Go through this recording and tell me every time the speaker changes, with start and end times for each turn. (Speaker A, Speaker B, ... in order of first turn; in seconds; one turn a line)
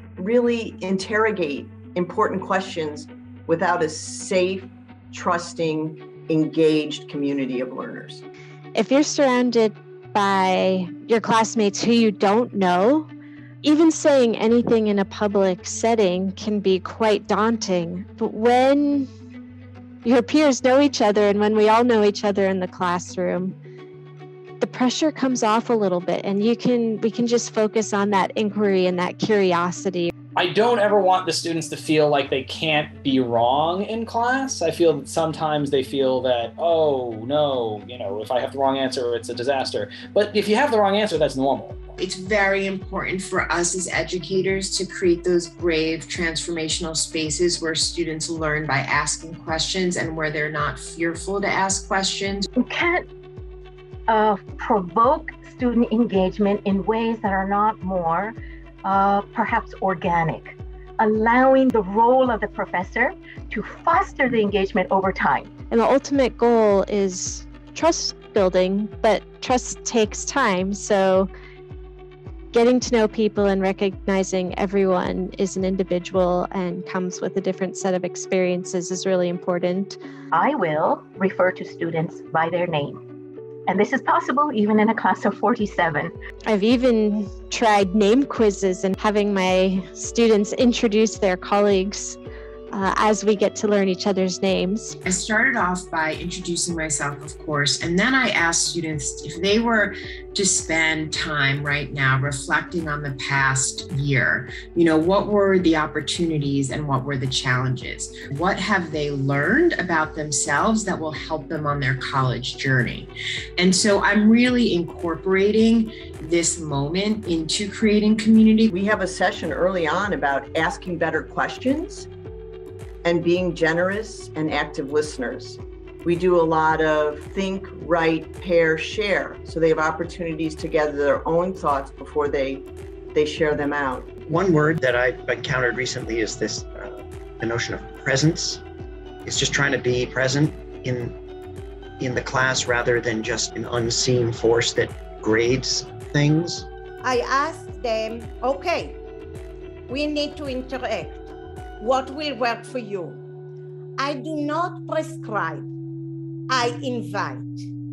Speaker A: 0.2-8.2
Speaker B: 8.7-13.1
Speaker B: 13.6-19.1
Speaker B: 20.0-23.6
Speaker B: 24.6-30.1
Speaker C: 30.3-41.8
Speaker D: 42.0-52.5
Speaker E: 52.7-53.0
Speaker E: 54.1-58.3
Speaker E: 58.9-65.4
Speaker B: 65.7-71.3
Speaker B: 72.5-80.0
Speaker E: 80.3-83.0
Speaker E: 83.7-86.0
Speaker B: 86.5-92.2
Speaker B: 92.7-95.0
Speaker D: 95.0-118.7
Speaker A: 118.7-122.1
Speaker A: 123.0-134.1
Speaker F: 134.3-138.6
Speaker F: 139.2-141.2
Speaker F: 142.0-146.7
Speaker G: 147.0-149.0
Speaker G: 149.9-153.2
Speaker G: 154.0-155.7
Speaker G: 156.5-157.7